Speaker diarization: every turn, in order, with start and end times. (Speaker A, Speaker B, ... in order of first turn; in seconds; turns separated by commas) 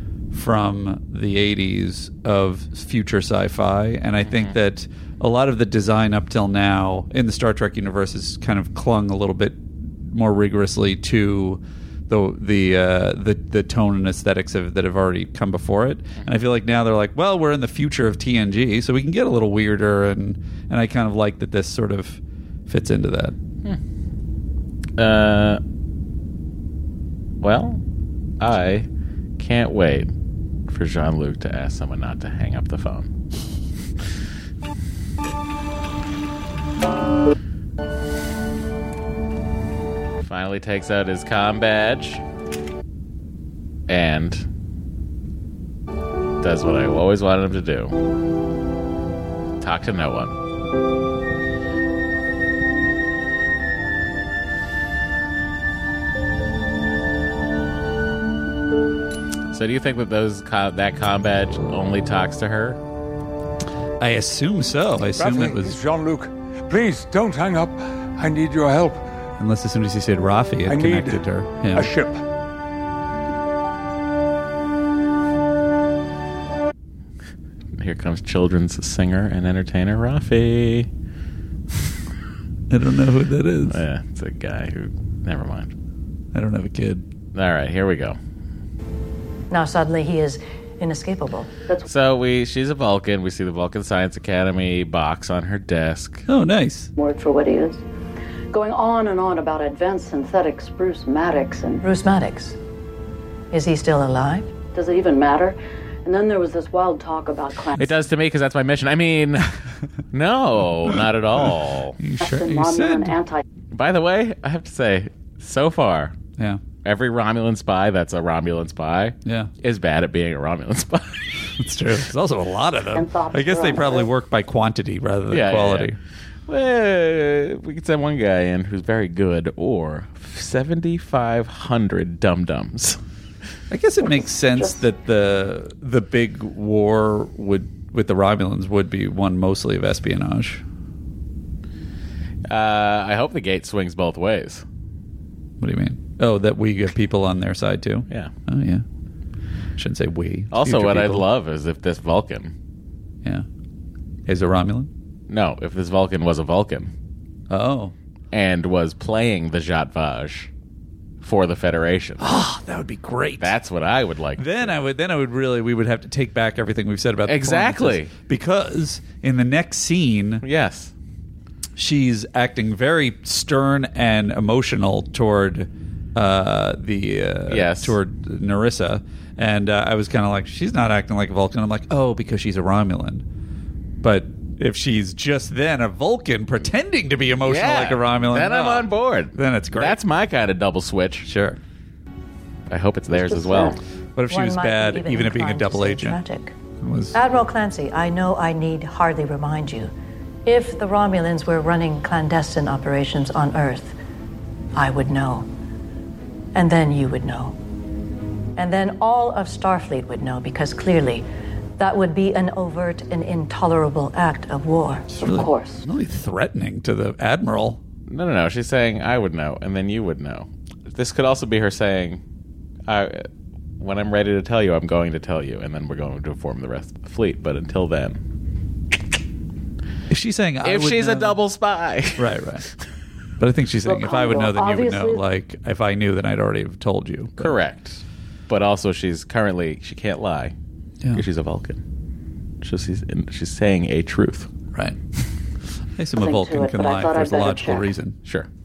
Speaker A: 0.3-23.4, Speaker B: 4.2-4.5, Speaker B: 25.0-25.6, Speaker B: 27.4-27.8, Speaker B: 28.4-30.1, Speaker B: 30.7-33.1, Speaker B: 40.2-42.2, Speaker B: 43.9-44.5, Speaker B: 46.4-48.0, Speaker B: 49.6-50.4, Speaker B: 59.5-62.8, Speaker A: 64.0-65.8, Speaker C: 65.2-69.0, Speaker A: 69.4-71.9, Speaker C: 70.7-72.2, Speaker B: 77.7-80.9, Speaker A: 82.7-83.8, Speaker B: 83.7-85.7, Speaker A: 86.3-87.1, Speaker B: 87.3-88.2, Speaker D: 89.5-91.5, Speaker B: 91.8-96.3, Speaker A: 96.3-96.9, Speaker E: 97.0-97.8, Speaker E: 98.5-101.8, Speaker D: 101.8-102.6, Speaker D: 103.5-104.5, Speaker E: 104.7-107.8, Speaker B: 107.8-109.5, Speaker B: 110.1-112.0, Speaker A: 112.0-113.2, Speaker E: 112.2-113.4, Speaker B: 113.7-116.2, Speaker B: 116.8-121.4, Speaker A: 119.2-119.5, Speaker A: 121.6-126.0, Speaker E: 122.9-124.1, Speaker B: 125.3-125.9, Speaker B: 126.5-133.0, Speaker A: 133.7-140.6, Speaker B: 142.5-144.7, Speaker A: 145.6-148.8, Speaker A: 149.8-151.3, Speaker B: 150.5-152.5, Speaker A: 154.3-154.9, Speaker B: 155.3-156.9, Speaker A: 157.5-157.9, Speaker B: 158.3-160.5, Speaker B: 161.2-162.2, Speaker A: 162.2-163.6, Speaker B: 163.4-164.7, Speaker A: 164.4-170.4, Speaker B: 167.3-168.1, Speaker B: 170.4-170.9, Speaker A: 171.8-183.2, Speaker B: 177.5-178.0, Speaker A: 184.0-190.0, Speaker B: 187.4-191.3, Speaker A: 191.2-191.6, Speaker B: 192.7-193.8, Speaker E: 193.2-193.8, Speaker A: 194.2-196.2, Speaker D: 194.3-196.5, Speaker A: 196.8-197.2, Speaker D: 197.1-199.9, Speaker D: 200.5-204.0, Speaker D: 204.7-205.5, Speaker D: 206.5-207.6, Speaker D: 208.6-211.3, Speaker D: 211.8-215.2, Speaker E: 215.2-215.8, Speaker A: 215.2-217.8, Speaker B: 218.1-222.2, Speaker B: 222.9-223.3, Speaker B: 223.8-228.2, Speaker A: 230.1-231.4, Speaker B: 230.6-232.4, Speaker A: 232.2-232.7, Speaker A: 233.4-237.6, Speaker E: 233.8-235.2, Speaker B: 237.4-240.6, Speaker B: 241.1-241.8, Speaker B: 242.6-244.5, Speaker A: 244.7-245.0, Speaker A: 246.0-248.2, Speaker E: 246.2-247.9